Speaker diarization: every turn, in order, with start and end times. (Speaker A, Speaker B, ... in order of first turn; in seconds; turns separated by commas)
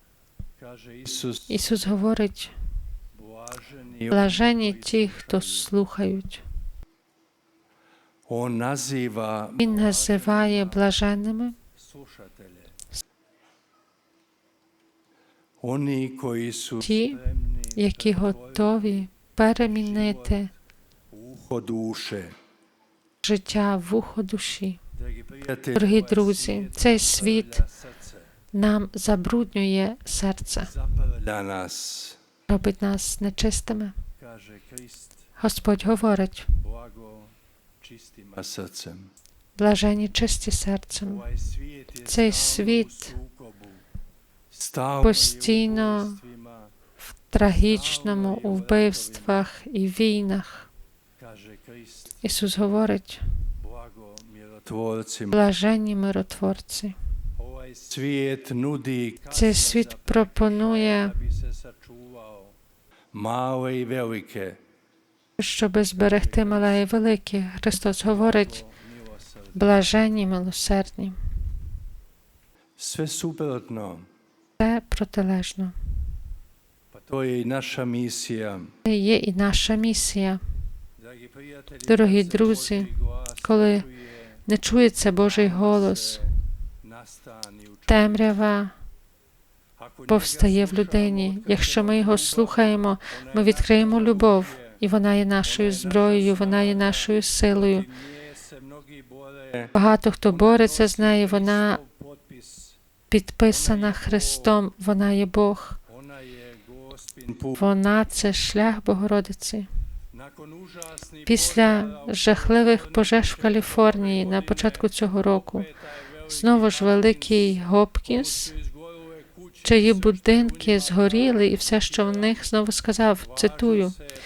Speaker A: 0.7-1.5, Speaker B: 1.5-2.5, Speaker A: 3.3-4.5, Speaker B: 4.1-6.4, Speaker A: 8.3-9.7, Speaker B: 9.6-11.6, Speaker A: 12.2-12.5, Speaker A: 15.6-16.9, Speaker B: 16.8-20.5, Speaker A: 21.1-22.4, Speaker B: 23.2-24.8, Speaker A: 25.3-27.7, Speaker B: 25.7-27.6, Speaker B: 28.5-30.7, Speaker A: 30.9-32.2, Speaker B: 32.5-33.9, Speaker A: 34.2-34.9, Speaker B: 35.4-36.5, Speaker A: 36.9-37.3, Speaker A: 37.8-39.1, Speaker B: 39.6-41.3, Speaker B: 42.0-43.1, Speaker A: 44.5-46.1, Speaker B: 45.0-46.2, Speaker B: 47.3-50.7, Speaker A: 51.2-51.7, Speaker B: 52.2-53.2, Speaker A: 54.0-55.3, Speaker B: 55.3-57.0, Speaker A: 57.5-59.8, Speaker B: 59.3-61.2, Speaker A: 61.5-62.5, Speaker A: 63.1-64.6, Speaker B: 65.4-68.6, Speaker B: 69.5-71.2, Speaker A: 72.8-74.1, Speaker B: 74.6-75.7, Speaker A: 76.9-78.7, Speaker B: 78.8-80.4, Speaker B: 81.8-82.9, Speaker A: 82.0-82.9, Speaker B: 83.4-83.9, Speaker B: 84.5-86.3, Speaker A: 87.1-87.5, Speaker B: 87.9-88.7, Speaker B: 90.1-97.9, Speaker A: 90.1-90.5, Speaker A: 96.0-96.3, Speaker A: 98.9-99.7, Speaker B: 99.7-101.8, Speaker A: 101.8-102.6, Speaker B: 103.1-105.8, Speaker A: 106.2-107.5, Speaker B: 107.5-109.7, Speaker A: 110.4-110.8, Speaker B: 111.2-115.7, Speaker B: 116.3-118.5, Speaker B: 119.6-124.0